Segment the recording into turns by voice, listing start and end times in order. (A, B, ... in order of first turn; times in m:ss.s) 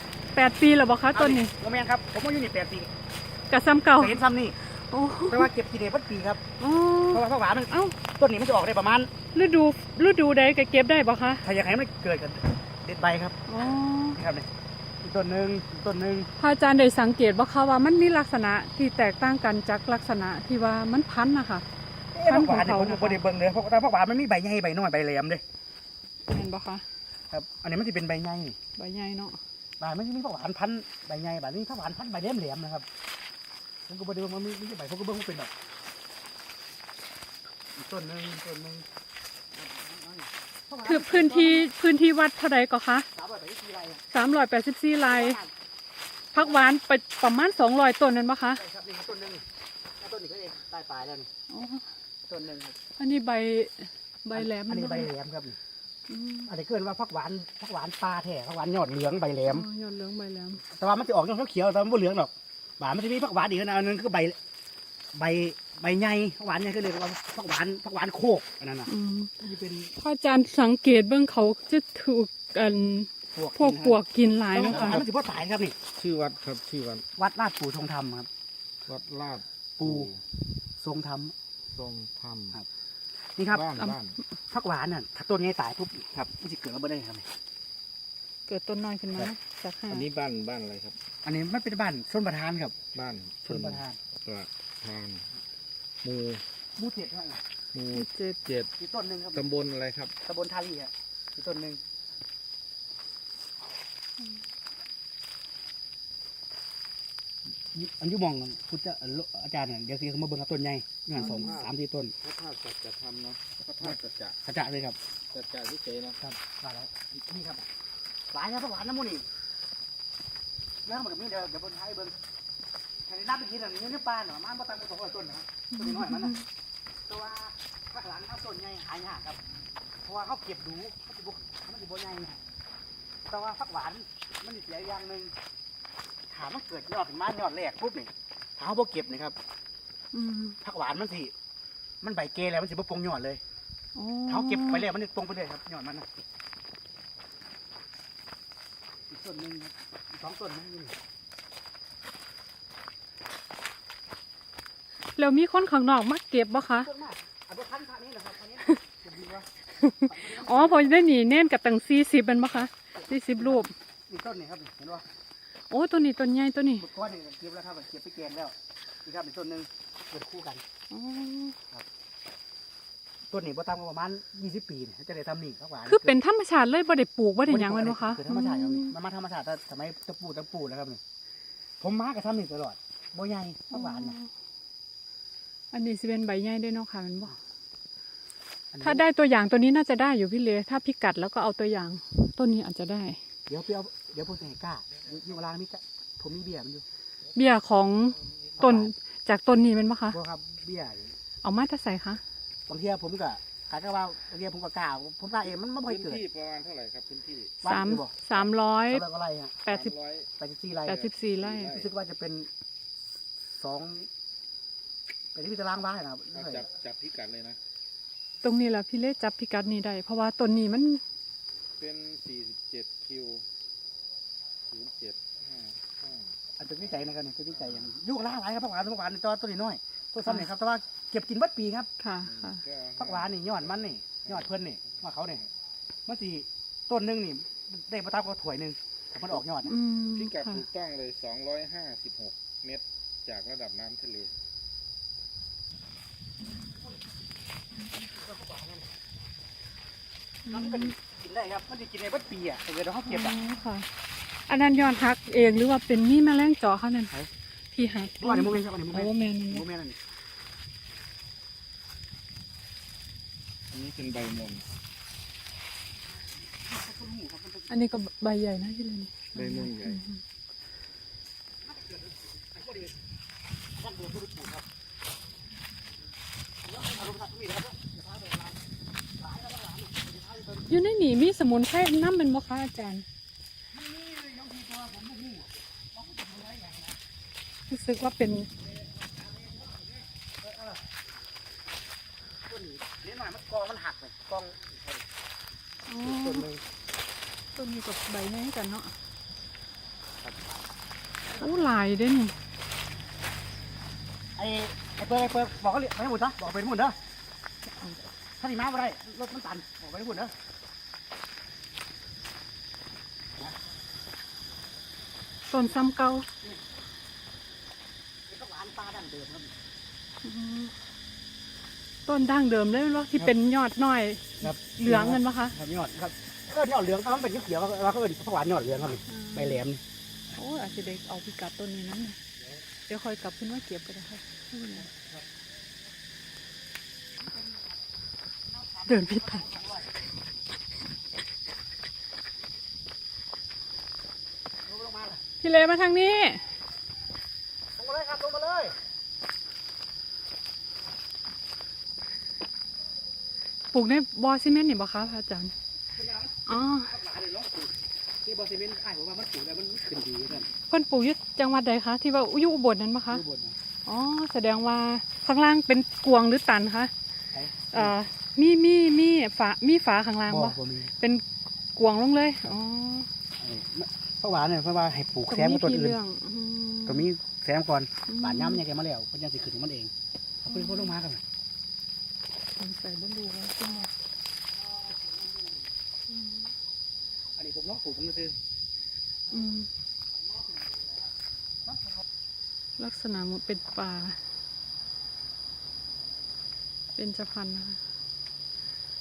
0:00.3-0:01.5 A
0:01.1-0:02.9 B
0:03.5-0:04.2 A
0:04.0-0:04.6 B
0:04.8-0:05.5 A
0:05.3-0:06.4 B
0:06.6-0:07.9 A
0:07.1-0:09.1 B
0:09.3-0:11.4 A
0:11.4-0:14.5 B
0:13.5-0:14.2 A
0:15.0-0:16.3 B
0:16.4-0:21.6 A
0:22.1-0:25.4 B
0:22.3-0:23.2 A
0:26.3-0:26.8 A
0:27.3-0:28.6 B
0:28.8-0:29.4 A
0:29.8-0:32.8 B
0:33.9-0:35.5 B
0:37.7-0:38.8 B
0:39.5-0:41.7 B
0:40.8-0:43.1 A
0:43.1-0:44.0 B
0:44.1-0:45.4 A
0:45.0-0:45.5 B
0:46.3-0:48.6 A
0:46.3-0:46.6 B
0:48.5-0:49.4 B
0:50.0-0:51.3 B
0:51.5-0:51.8 A
0:52.3-0:52.8 B
0:53.0-0:55.1 A
0:54.3-0:55.6 B
0:56.1-0:56.5 A
0:56.5-0:59.6 B
0:59.5-1:00.6 A
1:00.7-1:04.4 B
1:05.1-1:08.9 B
1:08.9-1:09.3 A
1:09.4-1:09.9 B
1:10.0-1:15.0 A
1:13.3-1:14.0 B
1:14.5-1:15.8 B
1:14.7-1:15.0 C
1:15.9-1:17.0 C
1:17.2-1:18.3 B
1:18.9-1:20.2 C
1:19.8-1:20.1 B
1:20.7-1:21.3 B
1:21.7-1:22.6 C
1:23.4-1:23.7 B
1:23.5-1:24.2 C
1:24.5-1:27.3 B
1:28.5-1:30.0 A
1:29.9-1:31.0 C
1:31.2-1:32.8 B
1:32.9-1:35.3 C
1:33.4-1:34.0 B
1:36.0-1:36.4 C
1:36.8-1:37.4 B
1:37.7-1:38.7 C
1:37.9-1:38.4 A
1:38.8-1:39.4 B
1:39.3-1:40.1 C
1:40.2-1:41.8 B
1:47.7-1:52.1 B
1:51.1-1:54.4 C
1:51.2-1:51.6 A
1:53.8-1:55.0 B
1:55.3-1:56.2 C
1:56.2-1:57.7 B
1:58.3-1:59.2 B
2:00.8-2:02.1 B
2:03.0-2:06.4 B
2:05.7-2:06.4 A
2:07.1-2:09.4 B
2:10.0-2:12.4 B
2:13.3-2:15.3 B
2:16.3-2:19.4 B
2:20.1-2:20.6 A
2:20.6-2:21.3 B
2:22.0-2:23.4 B
2:24.0-2:24.8 A
2:24.3-2:26.1 B
2:29.1-2:31.0 B
2:35.2-2:36.9 A
2:36.8-2:39.5 B
2:39.8-2:43.7 A
2:40.0-2:41.0 B
2:42.7-2:45.0 B
2:45.7-2:46.8 A
2:46.8-2:50.6 B
2:50.9-2:51.6 A
2:53.3-2:56.1 B
2:55.8-2:58.9 A
2:57.4-3:01.0 B
3:01.8-3:04.2 B
3:03.7-3:04.3 A
3:05.7-3:07.3 A
3:08.7-3:09.0 B
3:08.8-3:13.2 A
3:13.5-3:16.8 B
3:17.3-3:20.2 A
3:18.2-3:18.6 C
3:18.6-3:18.9 B
3:20.1-3:21.2 B
3:21.4-3:22.2 A
3:22.7-3:26.2 B
3:25.8-3:27.6 C
3:27.6-3:28.3 B
3:27.6-3:29.0 A
3:28.9-3:29.7 B
3:29.6-3:29.9 A
3:29.7-3:30.3 C
3:30.4-3:31.1 B
3:30.9-3:31.7 A
3:31.2-3:31.9 C
3:31.7-3:32.5 B
3:33.4-3:34.1 B
3:35.3-3:36.6 B
3:36.3-3:37.6 C
3:38.4-3:41.0 A
3:41.8-3:43.4 C
3:44.7-3:46.3 C
3:46.6-3:51.9 B
3:52.0-3:52.6 A
3:52.2-3:53.7 C
3:53.0-3:55.4 B
3:54.2-3:55.4 C
3:56.0-3:59.7 B
3:59.6-4:00.6 A
4:00.1-4:04.3 C
4:08.0-4:08.9 B
4:10.4-4:10.9 A
4:10.5-4:13.4 B
4:13.1-4:13.9 A
4:14.5-4:17.1 A
4:17.7-4:19.6 A
4:18.2-4:20.0 B
4:23.7-4:24.6 C
4:26.5-4:27.7 B
4:27.7-4:30.2 A
4:29.3-4:30.0 C
4:31.6-4:33.0 B
4:33.8-4:34.6 B
4:36.6-4:38.6 B
4:39.2-4:40.7 B
4:40.7-4:43.0 A
4:43.7-4:47.0 B
4:47.7-4:48.5 A
4:49.4-4:49.9 B
4:50.4-4:50.8 B
4:52.5-4:55.0 B
4:55.9-4:56.5 A
4:56.0-4:56.6 B
4:57.5-4:58.9 A
5:01.3-5:01.7 B
5:01.4-5:02.3 A
5:04.4-5:07.0 B
5:08.4-5:10.3 B
5:15.5-5:16.2 A
5:18.3-5:19.5 B
5:20.2-5:20.7 A
5:22.0-5:25.5 A
5:24.4-5:29.8 B
5:29.1-5:29.6 A
5:30.3-5:32.2 A
5:32.9-5:34.9 A
5:34.7-5:35.2 B
5:37.3-5:37.6 B
5:38.6-5:39.9 B
5:38.8-5:39.5 A
5:44.6-5:45.2 B
5:45.4-5:46.4 A
5:47.8-5:48.8 B
5:53.7-5:55.5 A
5:55.9-6:00.5 B
5:56.5-5:56.9 A
6:00.7-6:03.2 A
6:03.1-6:03.6 B
6:03.8-6:06.9 A
6:07.3-6:07.9 B
6:07.7-6:11.2 A
6:10.3-6:10.9 B
6:11.7-6:13.1 A
6:13.4-6:16.0 B
6:15.3-6:17.0 A
6:16.8-6:19.9 B
6:18.1-6:18.6 A
6:20.4-6:21.2 B
6:20.5-6:20.9 A
6:22.6-6:23.9 A
6:24.7-6:25.5 B
6:26.1-6:26.5 A
6:27.4-6:28.3 B
6:29.3-6:29.7 A
6:31.7-6:32.0 B
6:32.8-6:34.2 A
6:36.9-6:37.8 A